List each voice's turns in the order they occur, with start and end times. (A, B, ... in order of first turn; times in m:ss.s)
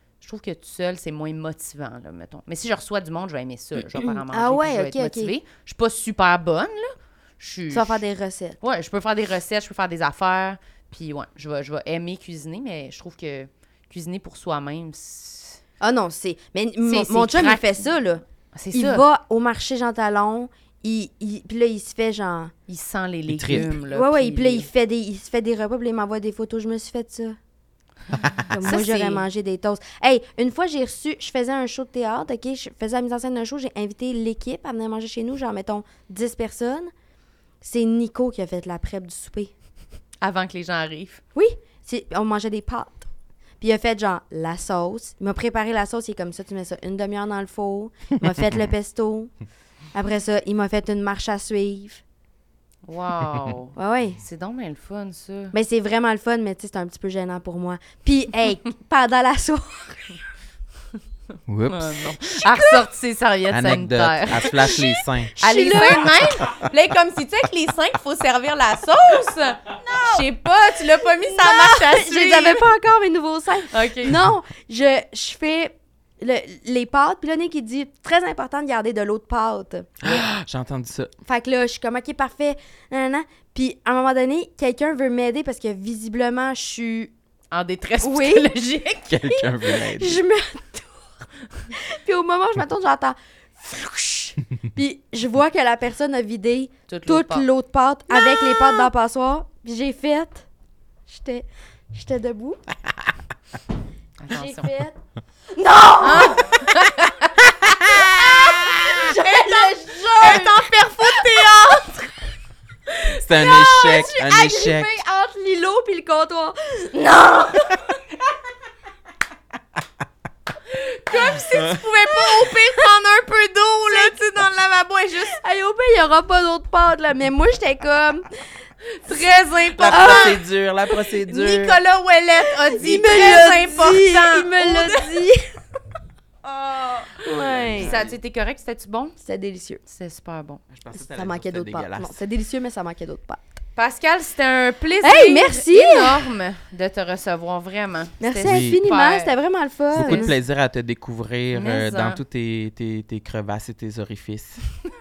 0:00.2-0:08.0 A
0:03.9-0:05.3 B
0:07.7-0:08.6 B
0:08.6-0:15.6 A
0:15.8-0:22.5 B
0:16.8-0:17.9 A
0:18.5-0:19.0 A
0:22.7-0:24.7 A
0:23.3-0:23.7 C
0:23.5-0:27.4 B
0:28.4-0:36.9 B
0:28.6-0:29.2 A
0:37.6-0:39.5 B
0:40.2-0:41.2 A
0:41.3-0:43.1 B
0:43.6-0:49.3 B
0:49.9-0:52.0 B
0:52.9-0:55.5 A
0:53.8-0:54.2 B
0:55.5-1:00.2 B
1:01.5-1:02.0 C
1:01.7-1:04.8 A
1:02.2-1:02.9 B
1:03.5-1:05.4 C
1:04.6-1:06.3 B
1:05.4-1:12.7 A
1:09.8-1:10.3 B
1:11.2-1:20.2 B
1:13.7-1:14.2 A
1:20.0-1:21.1 C
1:21.2-1:27.1 B
1:27.5-1:29.1 A
1:28.0-1:28.5 B
1:29.1-1:30.2 C
1:29.3-1:31.1 B
1:31.7-1:40.4 B
1:36.9-1:37.5 A
1:38.1-1:38.9 A
1:41.1-1:42.6 B
1:44.2-1:44.7 A
1:44.3-1:45.0 B
1:45.5-1:46.6 B
1:46.0-1:52.0 A
1:47.9-1:52.0 B
1:53.2-1:54.9 C
1:53.3-1:57.9 B
2:00.7-2:05.3 A
2:01.5-2:01.8 C
2:02.1-2:02.8 B
2:05.3-2:08.3 B
2:08.9-2:10.4 A
2:09.8-2:11.8 C
2:09.9-2:10.4 B
2:11.2-2:15.2 A
2:12.5-2:15.6 B
2:16.4-2:17.2 A
2:17.2-2:17.9 B
2:17.4-2:18.2 C
2:17.8-2:19.2 A
2:19.2-2:19.8 B
2:19.8-2:20.6 A
2:20.7-2:22.1 C
2:20.9-2:23.5 B
2:23.8-2:29.3 A
2:25.0-2:26.3 B
2:28.2-2:30.3 B
2:28.4-2:28.8 C
2:29.9-2:34.6 C
2:29.9-2:30.3 A
2:31.5-2:32.2 A